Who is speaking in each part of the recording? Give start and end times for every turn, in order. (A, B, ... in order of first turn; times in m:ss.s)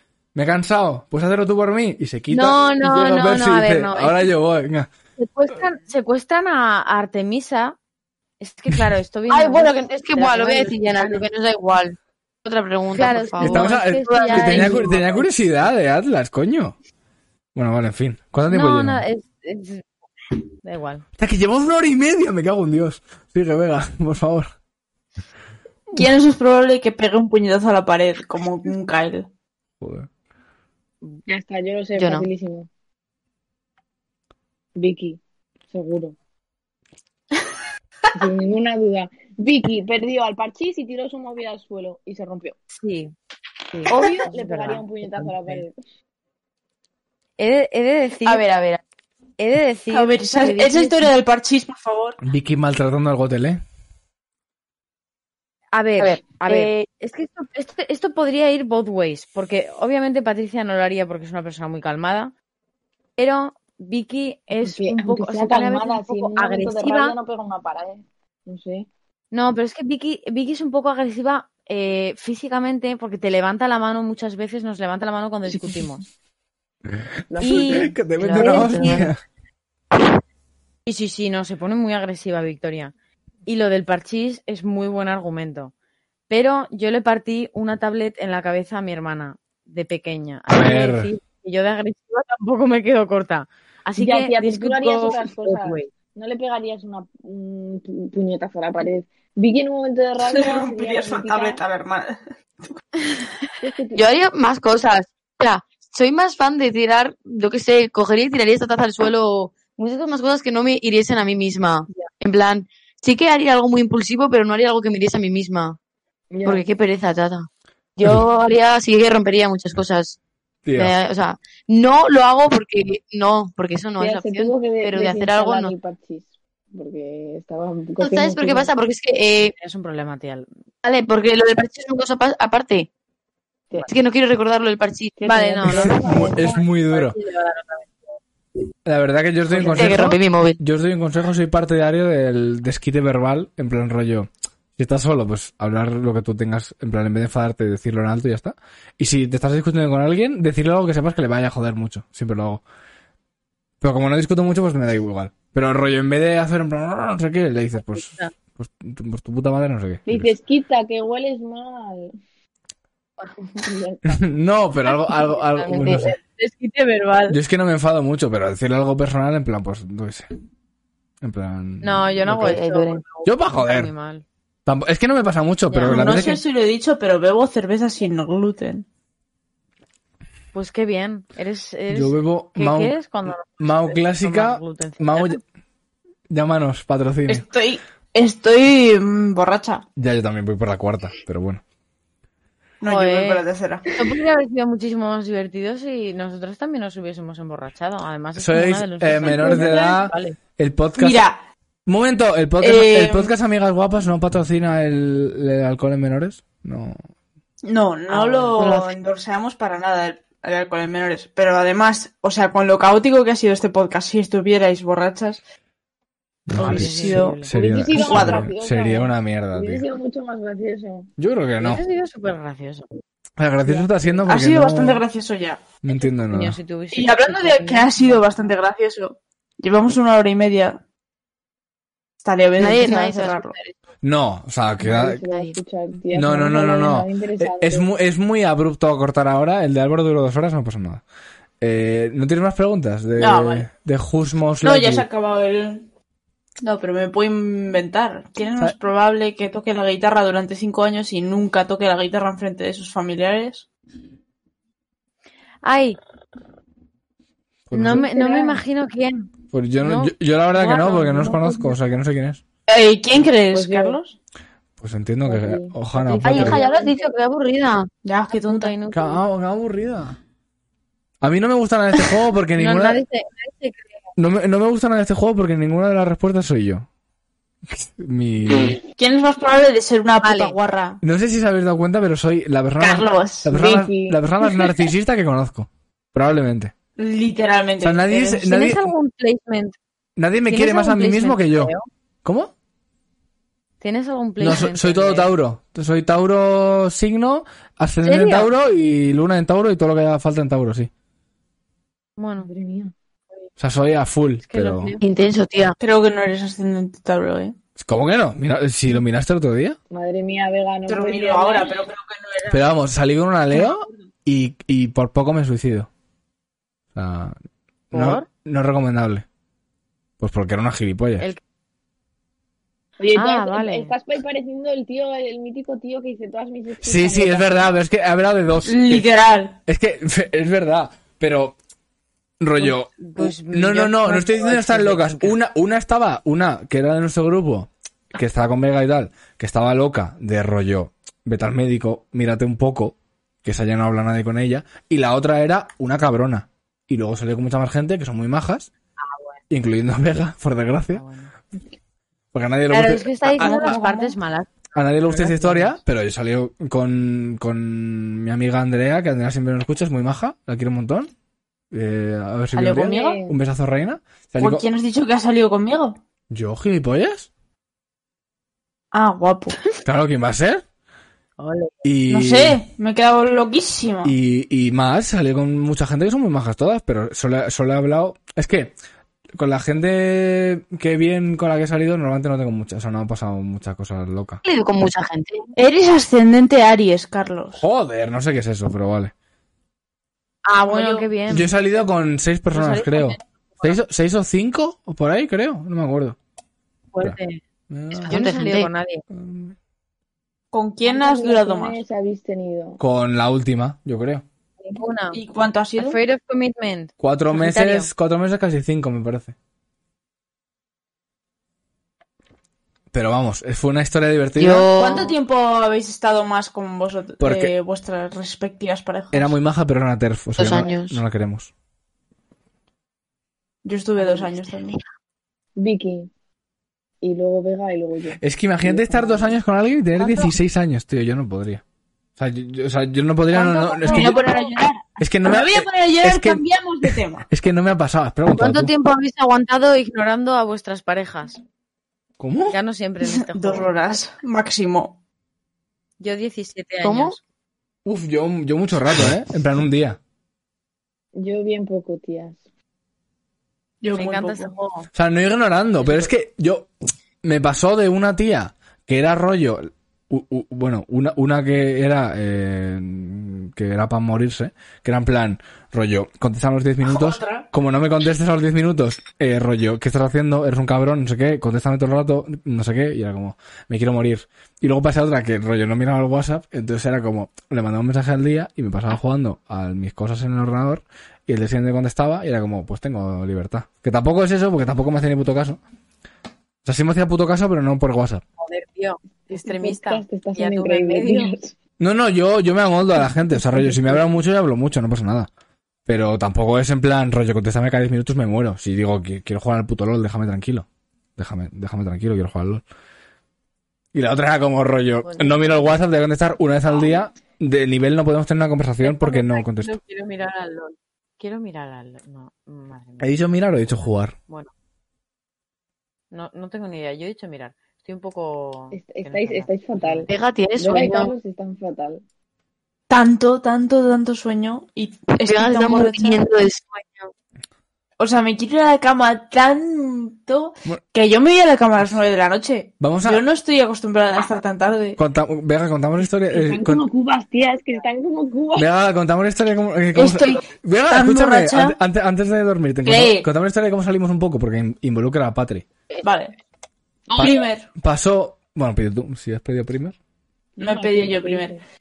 0:00.3-0:04.9 A
0:02.3-0:04.3 B
0:05.2-0:07.8 B
0:08.4-0:11.2 B
0:09.3-0:15.2 C
0:12.9-0:15.2 B
0:13.4-0:16.7 A
0:17.5-0:19.0 A
0:18.5-0:19.8 B
0:20.6-0:21.0 B
0:21.2-0:24.5 A
0:25.9-0:29.3 D
0:29.8-0:30.1 A
0:31.3-0:32.7 E
0:32.0-0:32.3 C
0:34.8-0:35.2 E
0:35.7-0:36.1 E
0:38.1-0:42.6 E
0:42.7-0:43.1 B
0:43.7-0:45.6 B
0:43.9-0:45.7 E
0:47.4-0:48.4 B
0:48.2-0:48.8 C
0:49.4-0:51.1 B
0:49.9-0:52.2 D
0:52.2-0:53.6 A
0:55.7-1:02.3 B
0:56.0-0:56.9 C
1:03.2-1:07.1 B
1:04.6-1:08.9 E
1:09.3-1:16.0 B
1:15.5-1:15.8 E
1:17.3-1:17.9 E
1:17.4-1:19.2 A
1:17.4-1:19.1 B
1:18.2-1:19.1 C
1:20.8-1:22.9 B
1:23.4-1:25.7 B
1:26.3-1:35.9 B
1:30.5-1:31.1 A
1:34.0-1:41.6 E
1:40.2-1:42.7 D
1:43.6-1:44.0 E
1:43.9-1:55.8 C
1:56.3-1:56.6 E
1:56.4-2:00.2 C
2:00.6-2:01.0 A
2:00.8-2:05.7 C
2:04.0-2:08.7 E
2:08.0-2:09.5 C
2:09.4-2:10.5 B
2:10.8-2:12.9 C
2:13.9-2:15.2 C
2:15.2-2:16.5 E
2:15.2-2:17.9 B
2:15.6-2:17.2 A
2:18.8-2:32.6 A
2:19.5-2:20.0 B
2:19.5-2:20.6 C
2:33.8-2:40.3 A
2:37.9-2:38.3 B
2:40.0-2:42.1 E
2:43.6-2:44.2 E
2:44.0-2:46.2 A
2:45.4-2:46.1 C
2:45.7-2:47.4 B
2:47.3-2:50.3 A
2:51.2-2:52.6 A
2:51.8-2:54.2 B
2:52.3-2:53.0 C
2:53.2-2:53.9 A
2:54.6-2:56.4 A
2:55.7-2:56.3 B
2:55.8-2:58.8 D
3:00.5-3:05.4 B
3:01.9-3:03.0 A
3:03.6-3:05.4 A
3:06.3-3:07.4 A
3:07.3-3:09.8 D
3:10.0-3:11.6 A
3:12.8-3:14.1 D
3:12.8-3:20.4 B
3:18.4-3:21.2 A
3:21.0-3:21.4 D
3:21.8-3:27.0 A
3:22.6-3:23.3 D
3:27.6-3:35.4 D
3:28.1-3:28.7 B
3:28.6-3:28.9 C
3:36.5-3:39.8 A
3:36.6-3:38.5 D
3:36.6-3:37.5 B
3:37.5-3:41.1 E
3:41.2-3:41.8 A
3:41.6-3:42.9 B
3:43.4-3:45.0 A
3:43.7-3:44.2 B
3:44.3-3:45.6 D
3:45.8-3:46.6 A
3:45.9-3:48.5 B
3:46.9-3:50.8 D
3:52.2-3:53.6 D
3:52.6-3:53.7 C
3:54.0-3:55.2 A
3:54.8-3:57.8 E
3:55.3-3:55.5 C
3:56.1-4:01.0 A
4:01.6-4:05.1 A
4:03.2-4:03.7 D
4:04.6-4:05.8 D
4:06.6-4:13.6 D
4:15.6-4:16.0 B
4:17.7-4:18.0 A
4:17.7-4:21.8 B
4:17.9-4:18.6 E
4:19.5-4:22.4 A
4:22.7-4:24.2 D
4:23.5-4:24.0 E
4:24.8-4:26.6 A
4:25.2-4:25.7 E
4:25.9-4:26.8 B
4:26.2-4:27.9 C
4:26.3-4:27.0 E
4:28.0-4:28.7 D
4:28.3-4:29.2 B
4:28.9-4:30.2 A
4:31.2-4:33.0 A
4:32.6-4:33.9 B
4:34.2-4:36.9 A
4:37.7-4:38.8 A
4:39.0-4:41.0 D
4:40.2-4:40.6 B
4:41.0-4:46.7 A
4:42.8-4:43.6 D
4:43.5-4:44.2 E
4:47.0-4:48.4 D
4:47.8-4:48.8 A
4:48.4-4:49.8 B
4:50.2-4:51.7 A
4:50.5-4:51.9 B
4:52.2-4:52.5 A
4:53.8-4:55.3 B
4:54.4-5:00.9 A
4:58.0-4:58.5 B
5:02.2-5:02.5 B
5:02.4-5:02.9 E
5:03.6-5:04.9 A
5:04.5-5:05.0 B
5:05.0-5:05.8 C
5:05.8-5:07.5 D
5:07.8-5:09.8 A
5:09.9-5:11.8 E
5:10.8-5:12.6 D
5:12.5-5:15.9 A
5:16.9-5:17.4 A
5:17.9-5:18.2 B
5:17.9-5:19.2 A
5:20.2-5:21.3 A
5:23.0-5:27.7 E
5:23.1-5:23.9 B
5:26.8-5:29.1 A
5:28.6-5:29.6 D
5:29.6-5:31.6 A
5:32.4-5:48.7 A
5:32.6-5:35.3 B
5:49.0-5:49.4 B
5:49.5-5:51.0 A
5:50.9-5:51.3 B
5:52.3-5:53.8 A
5:52.7-5:54.5 B
5:53.3-5:54.1 D
5:54.7-6:01.1 A
5:55.1-5:55.8 B
6:01.7-6:04.6 A
6:02.5-6:03.2 D
6:02.8-6:03.4 E
6:04.4-6:06.0 D
6:06.3-6:07.3 A
6:08.9-6:09.6 D
6:09.8-6:10.6 A
6:11.4-6:11.7 B
6:11.8-6:12.6 A
6:12.1-6:14.1 D
6:14.0-6:18.7 A
6:19.4-6:24.4 A
6:24.4-6:25.5 C
6:25.6-6:27.6 D
6:27.6-6:29.1 A
6:30.4-6:31.5 B
6:30.6-6:31.1 D
6:31.3-6:36.2 A
6:32.5-6:33.8 B
6:36.9-6:37.4 B
6:37.7-6:38.2 A
6:37.9-6:39.0 B
6:38.1-6:38.7 C
6:39.1-6:39.5 A
6:40.5-6:41.8 D
6:40.8-6:42.8 E
6:42.8-6:44.2 A
6:44.6-6:45.2 B
6:45.1-6:46.0 D
6:45.8-6:47.9 B
6:47.0-6:49.3 A
6:52.9-6:54.7 A
6:54.4-6:55.2 C
6:54.7-6:59.3 D
6:57.2-6:57.5 A
6:59.1-7:01.5 A
7:00.4-7:01.0 C
7:03.6-7:04.8 D
7:04.0-7:04.3 E
7:05.6-7:06.1 E
7:07.0-7:09.4 E
7:08.2-7:11.6 A
7:12.2-7:14.2 A
7:13.4-7:17.3 D
7:13.9-7:14.4 B
7:15.0-7:18.7 A
7:18.3-7:21.4 B
7:22.2-7:22.6 A
7:22.5-7:23.8 B
7:23.0-7:25.0 D
7:26.0-7:27.2 B
7:26.8-7:27.2 C
7:27.8-7:30.0 A
7:31.1-7:32.4 E
7:33.8-7:34.5 D
7:33.9-7:34.9 B
7:34.9-7:36.7 A
7:37.2-8:05.6 A
7:46.8-7:47.5 D
8:06.6-8:08.2 A
8:08.4-8:11.3 B
8:09.3-8:11.5 E
8:11.8-8:15.3 A
8:13.4-8:14.0 E
8:15.8-8:20.6 A
8:21.2-8:22.6 A
8:23.9-8:29.8 A
8:25.1-8:25.6 B
8:28.8-8:34.5 B
8:33.0-8:34.1 A
8:36.1-8:40.1 B
8:38.7-8:42.0 E
8:40.1-8:41.1 C
8:42.9-8:46.2 D
8:45.1-8:47.1 C
8:48.0-8:55.0 D
8:52.8-8:53.2 A
8:55.0-8:56.8 A
8:56.3-8:58.7 E
8:58.6-9:05.7 A
9:00.0-9:01.8 D
9:02.8-9:03.3 D
9:06.0-9:06.3 D
9:07.1-9:07.7 D
9:07.2-9:09.9 A
9:10.6-9:11.6 E
9:10.6-9:11.5 D